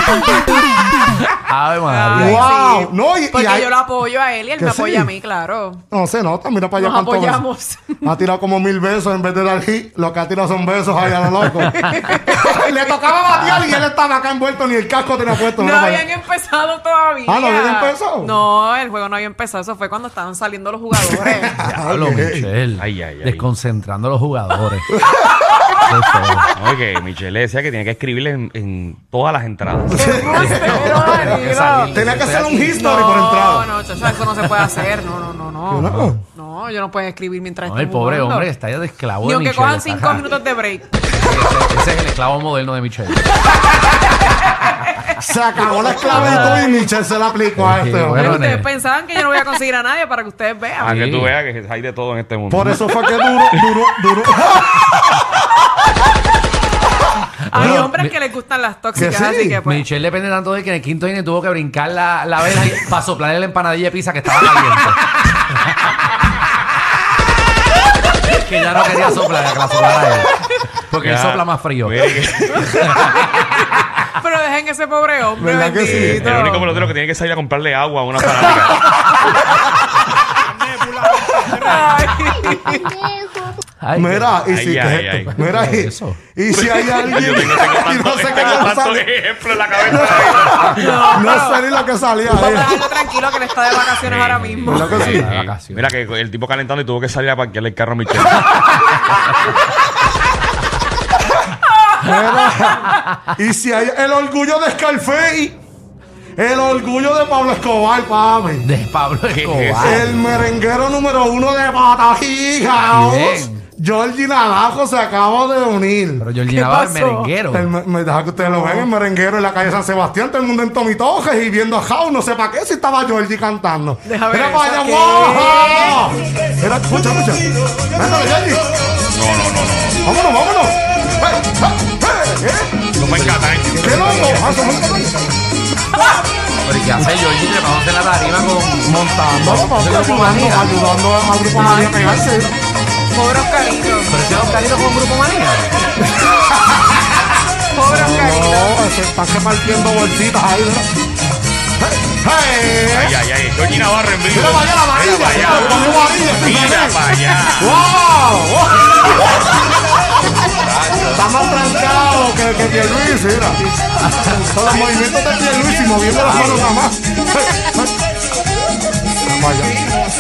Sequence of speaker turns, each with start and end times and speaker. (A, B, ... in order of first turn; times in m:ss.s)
0:01.3-0:02.5 A
0:01.8-0:05.8 B
0:02.1-0:03.7 C
0:04.6-0:05.1 C
0:05.9-0:07.4 C
0:06.8-0:08.1 B
0:08.0-0:16.1 C
0:11.7-0:12.8 B
0:15.4-0:21.7 B
0:17.3-0:18.4 C
0:21.1-0:22.5 C
0:21.8-0:24.9 A
0:22.8-0:23.5 D
0:24.9-0:25.5 C
0:25.8-0:26.5 A
0:26.6-0:30.5 D
0:29.9-0:33.7 C
0:30.0-0:32.0 B
0:30.4-0:32.8 A
0:32.7-0:38.5 B
0:35.7-0:36.2 C
0:35.8-0:36.2 A
0:37.6-0:40.2 A
0:39.2-0:41.2 B
0:41.1-0:43.3 A
0:45.1-0:48.6 C
0:45.8-0:46.9 B
0:46.1-0:46.5 A
0:47.6-0:48.7 A
0:48.2-0:51.2 B
0:50.8-0:53.7 D
0:51.0-0:51.3 A
0:52.5-0:54.9 C
0:57.4-0:58.1 A
0:57.5-0:59.8 B
0:57.5-0:57.9 C
0:59.0-0:59.6 C
0:59.6-1:05.9 A
1:08.2-1:12.0 A
1:11.0-1:13.1 D
1:12.7-1:13.4 A
1:13.2-1:16.7 B
1:15.4-1:16.3 C
1:15.9-1:19.0 D
1:21.3-1:23.2 B
1:21.3-1:21.7 D
1:23.8-1:24.5 A
1:24.0-1:29.1 C
1:24.5-1:25.3 D
1:25.1-1:26.2 A
1:26.5-1:30.8 D
1:29.8-1:32.9 C
1:30.5-1:31.7 B
1:32.2-1:34.9 B
1:34.0-1:38.8 D
1:34.6-1:35.2 C
1:34.7-1:36.0 A
1:41.6-1:42.6 B
1:42.0-1:45.6 C
1:46.4-1:48.6 C
1:48.6-1:50.1 A
1:49.3-1:50.0 D
1:49.8-1:56.3 C
1:52.9-1:53.6 A
1:56.2-1:57.7 A
1:56.5-1:57.4 B
1:57.5-2:08.7 C
1:58.4-1:58.9 B
2:04.1-2:06.0 B
2:09.1-2:10.0 D
2:10.0-2:12.8 C
2:13.0-2:14.5 A
2:13.0-2:14.4 D
2:13.8-2:15.4 C
2:16.6-2:20.8 A
2:18.9-2:22.5 C
2:21.5-2:22.2 B
2:23.1-2:24.2 B
2:24.1-2:25.8 A
2:26.2-2:27.0 C
2:27.8-2:28.8 B
2:27.9-2:30.9 C
2:31.8-2:33.1 C
2:32.9-2:37.8 D
2:34.3-2:37.0 C
2:37.6-2:39.2 C
2:40.7-2:41.2 A
2:41.1-2:43.6 C
2:44.0-2:44.5 A
2:44.3-2:47.9 C
2:46.2-2:46.7 A
2:49.2-2:49.8 C